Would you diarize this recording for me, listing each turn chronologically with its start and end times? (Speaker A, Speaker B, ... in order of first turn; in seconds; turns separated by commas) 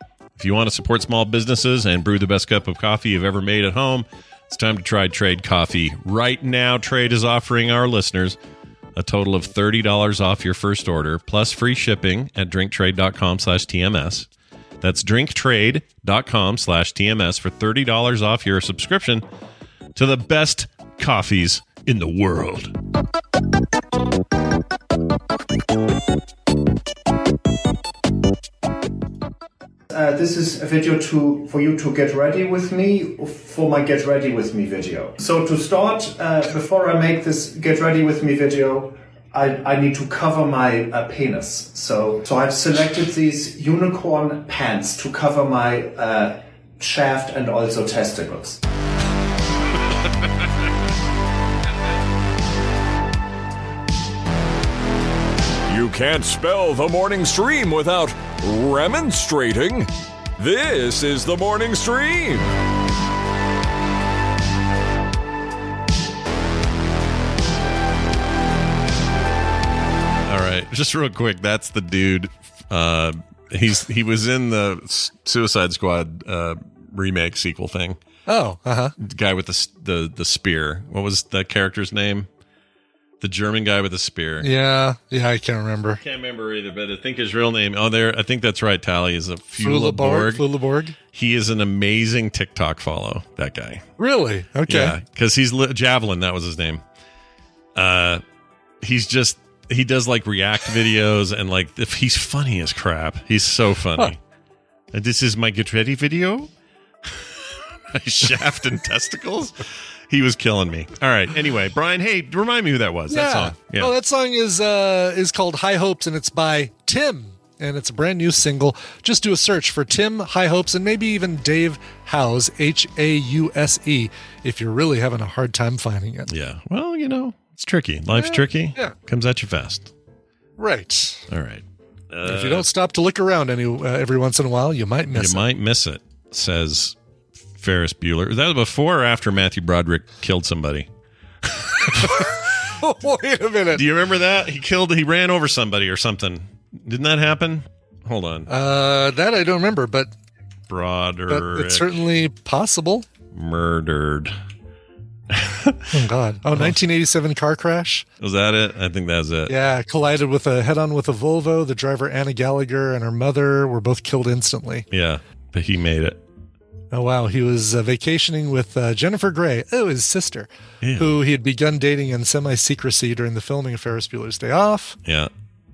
Speaker A: 0.4-8.4, Speaker A: 8.9-14.3, Speaker A: 14.8-19.2, Speaker A: 19.9-22.7, Speaker B: 29.9-48.6, Speaker C: 55.7-62.5, Speaker A: 70.2-78.0, Speaker D: 78.3-78.9, Speaker A: 79.0-82.3, Speaker A: 83.2-84.5, Speaker D: 84.4-86.0, Speaker A: 86.0-90.4, Speaker D: 89.6-90.9, Speaker A: 91.1-93.8, Speaker D: 94.0-94.9, Speaker A: 94.7-96.8, Speaker A: 97.7-98.2, Speaker A: 98.8-104.2, Speaker A: 104.9-106.5, Speaker A: 107.0-107.3, Speaker A: 107.9-113.9, Speaker D: 113.1-126.3, Speaker A: 126.3-129.9, Speaker D: 128.1-128.9, Speaker D: 130.6-131.2, Speaker A: 131.3-132.7, Speaker D: 132.2-135.4, Speaker A: 135.1-136.9, Speaker A: 137.6-140.9, Speaker A: 141.4-142.4, Speaker D: 142.1-143.8, Speaker A: 143.7-148.5, Speaker D: 148.5-150.1, Speaker A: 150.7-151.9, Speaker D: 151.3-153.1, Speaker A: 153.3-154.3, Speaker A: 155.3-155.9, Speaker D: 155.9-158.0, Speaker A: 158.2-159.5, Speaker D: 159.5-164.8, Speaker A: 164.9-166.2, Speaker D: 166.9-175.0, Speaker A: 170.8-171.2, Speaker A: 175.1-175.3